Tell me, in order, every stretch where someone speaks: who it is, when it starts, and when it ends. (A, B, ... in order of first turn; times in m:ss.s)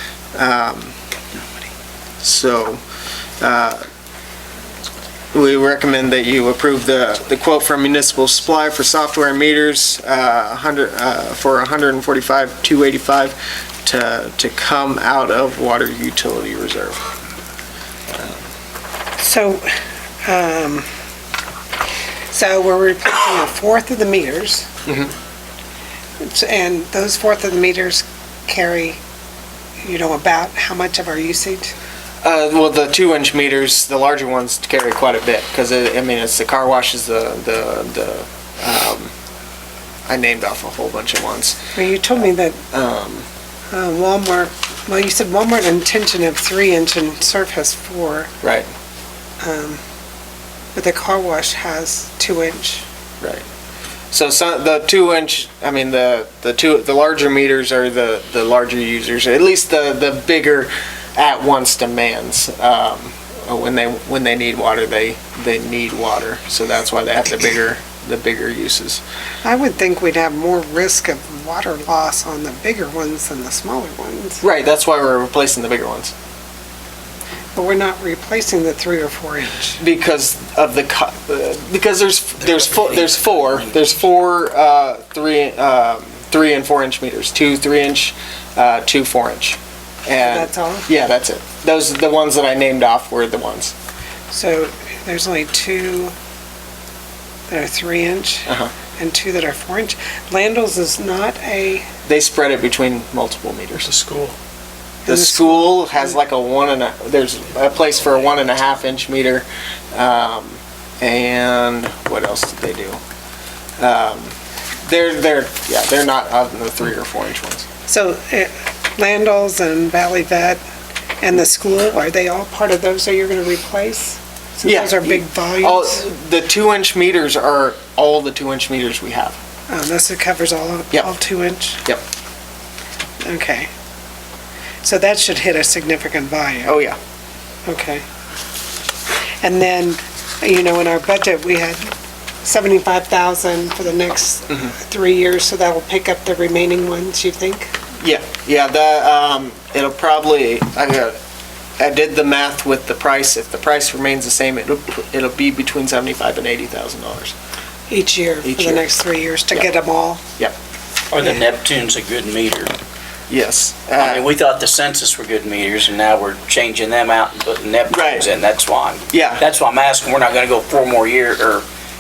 0:00.3-0:00.9 A
0:02.2-0:02.8 A
0:03.4-0:03.8 A
0:05.3-0:17.0 A
0:18.1-0:18.4 A
0:19.2-0:19.6 B
0:20.2-0:20.8 B
0:22.3-0:24.7 B
0:24.8-0:25.1 A
0:26.2-0:29.0 B
0:29.8-0:31.7 B
0:32.2-0:39.1 A
0:40.1-0:41.7 A
0:41.8-0:42.6 B
0:42.7-0:43.3 A
0:43.7-0:48.3 B
0:48.4-0:48.7 A
0:49.4-0:49.8 B
0:50.7-0:52.8 B
0:53.2-0:53.4 A
0:54.1-1:09.0 A
1:09.4-1:14.4 B
1:14.4-1:16.1 A
1:17.5-1:19.8 B
1:19.8-1:33.7 A
1:30.2-1:30.9 B
1:34.3-1:36.1 B
1:37.5-1:41.8 B
1:38.5-1:38.7 A
1:42.0-1:44.2 A
1:45.1-1:45.8 B
1:45.1-1:53.0 A
1:53.8-1:57.7 A
1:57.9-2:00.6 B
2:01.2-2:06.0 B
2:04.6-2:09.4 A
2:09.7-2:11.8 B
2:13.2-2:13.7 B
2:14.8-2:16.7 B
2:16.6-2:17.0 A
2:17.6-2:18.0 B
2:19.4-2:21.9 B
2:22.4-2:27.7 B
2:28.0-2:31.2 A
2:31.8-2:37.3 A
2:37.9-2:40.2 B
2:38.4-2:38.8 A
2:41.1-2:42.7 C
2:43.3-2:44.3 A
2:44.0-2:51.6 C
2:47.9-2:48.3 A
2:49.1-2:49.4 A